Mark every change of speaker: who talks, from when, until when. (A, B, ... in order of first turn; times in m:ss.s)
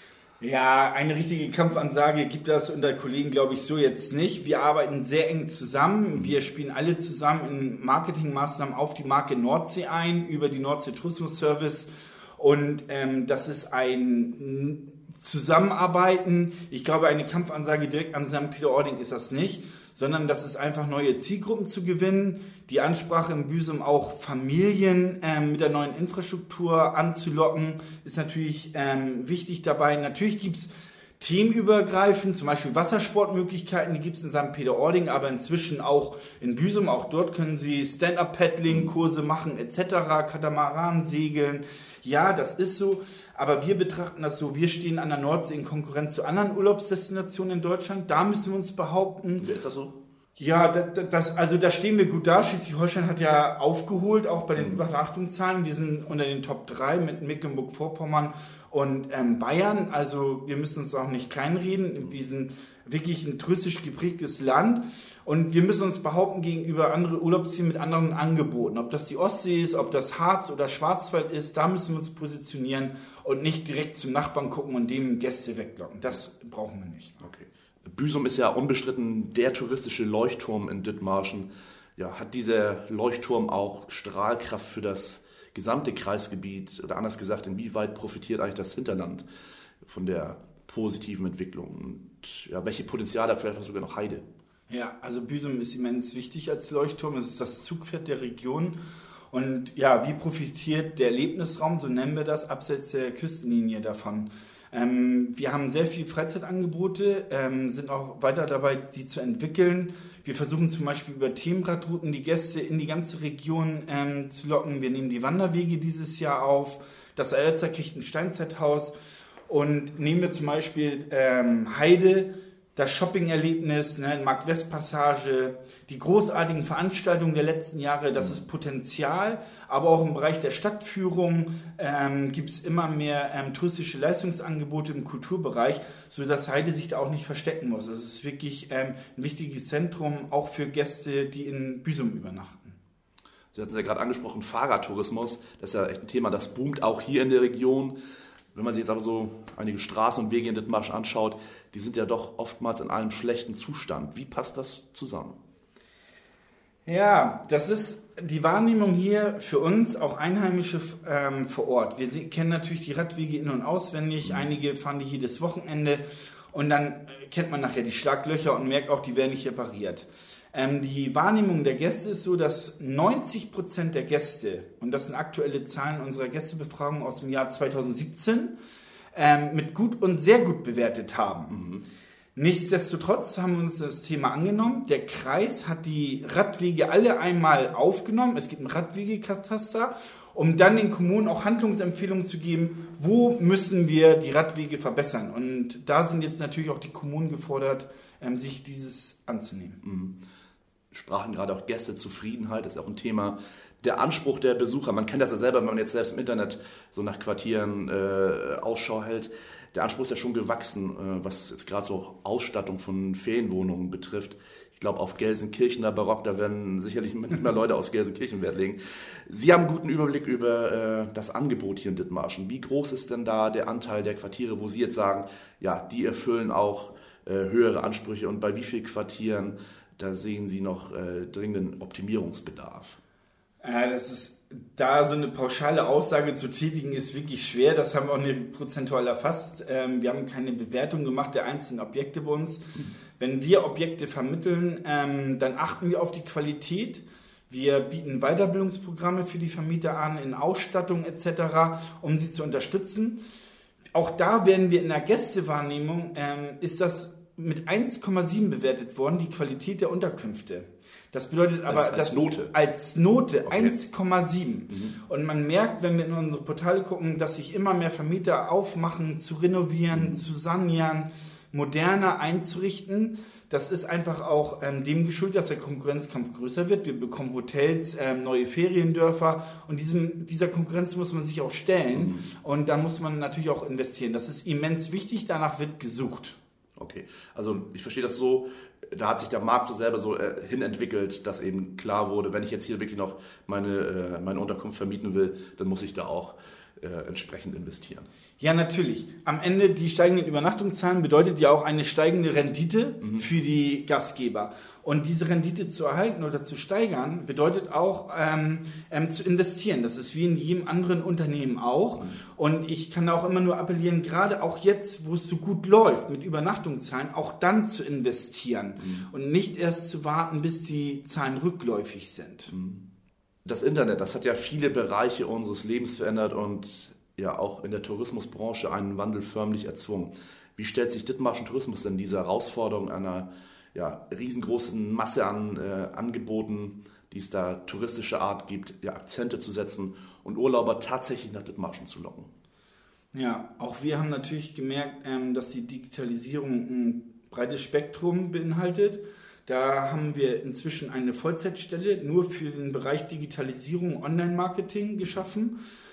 0:00.4-0:49.4 A
0:49.4-0:50.0 B
0:50.4-1:17.2 A
1:17.2-1:29.3 B
1:29.8-1:34.2 B
1:34.7-1:38.8 A
1:39.3-1:59.0 A
1:59.5-2:22.8 A
2:23.5-2:28.0 B
2:28.5-2:35.4 B
2:36.9-2:58.6 A
2:59.1-3:01.6 A
3:01.5-3:01.8 B
3:02.4-3:19.8 A
3:19.8-3:20.2 B
3:20.9-3:53.0 B
3:53.6-4:13.2 A
4:13.9-4:46.4 A
4:21.7-4:22.5 B
4:23.5-4:23.8 B
4:24.7-4:25.0 B
4:29.9-4:30.2 B
4:41.9-4:42.3 B
4:46.8-4:58.1 B
4:58.4-5:22.5 A
5:18.8-5:19.1 B
5:22.5-5:22.8 B
5:23.4-5:42.3 B
5:43.1-5:55.6 A